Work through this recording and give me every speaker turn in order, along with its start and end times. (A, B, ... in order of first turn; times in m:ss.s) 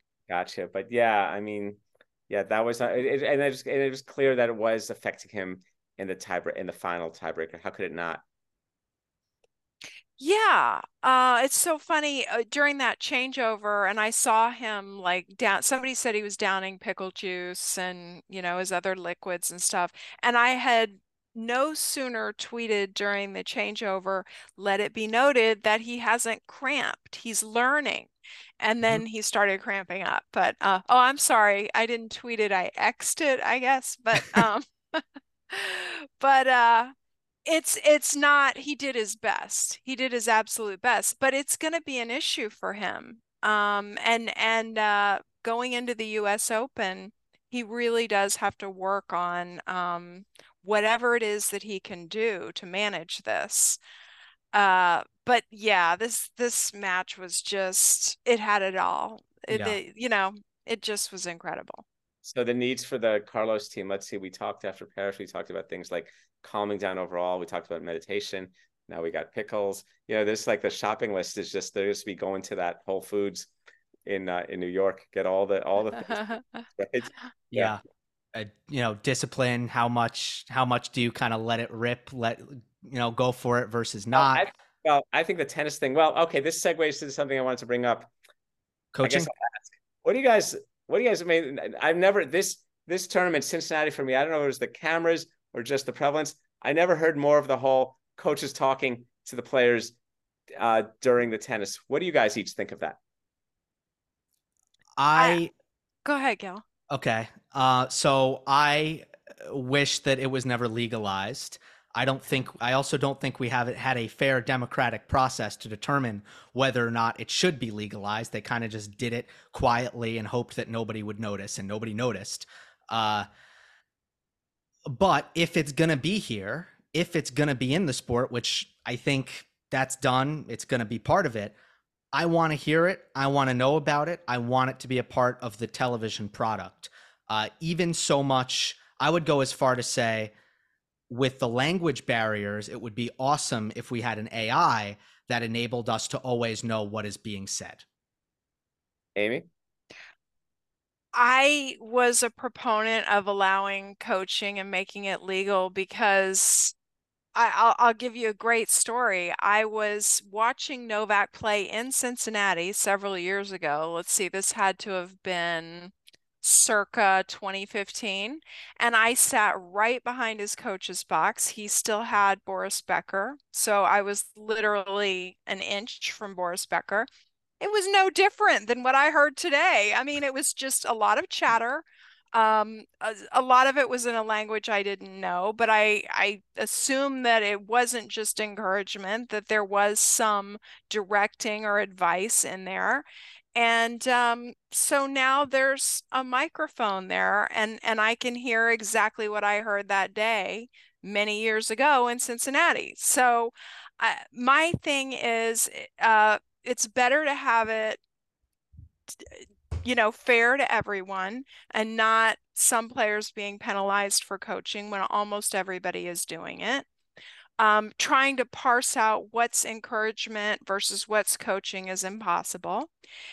0:00.3-0:08.2 A
0:10.2-0:28.1 B
0:28.6-0:36.9 B
0:37.5-0:53.8 B
0:54.5-1:01.8 B
0:59.5-0:59.8 C
1:02.2-1:13.5 A
1:14.1-1:17.8 A
1:17.5-1:17.8 C
1:18.3-1:24.4 C
1:24.1-1:28.1 A
1:28.9-1:29.3 C
1:29.0-1:39.9 A
1:40.6-1:43.0 A
1:45.0-1:45.5 C
1:45.2-1:45.4 B
1:46.0-1:46.6 B
1:46.9-2:03.3 C
2:04.9-2:11.6 C
2:12.1-2:20.3 C
2:21.1-2:27.8 C
2:29.2-2:29.5 A
2:31.2-2:36.7 B
2:37.4-2:57.1 B
2:57.6-3:28.0 B
3:29.2-3:36.9 B
3:37.6-3:42.9 B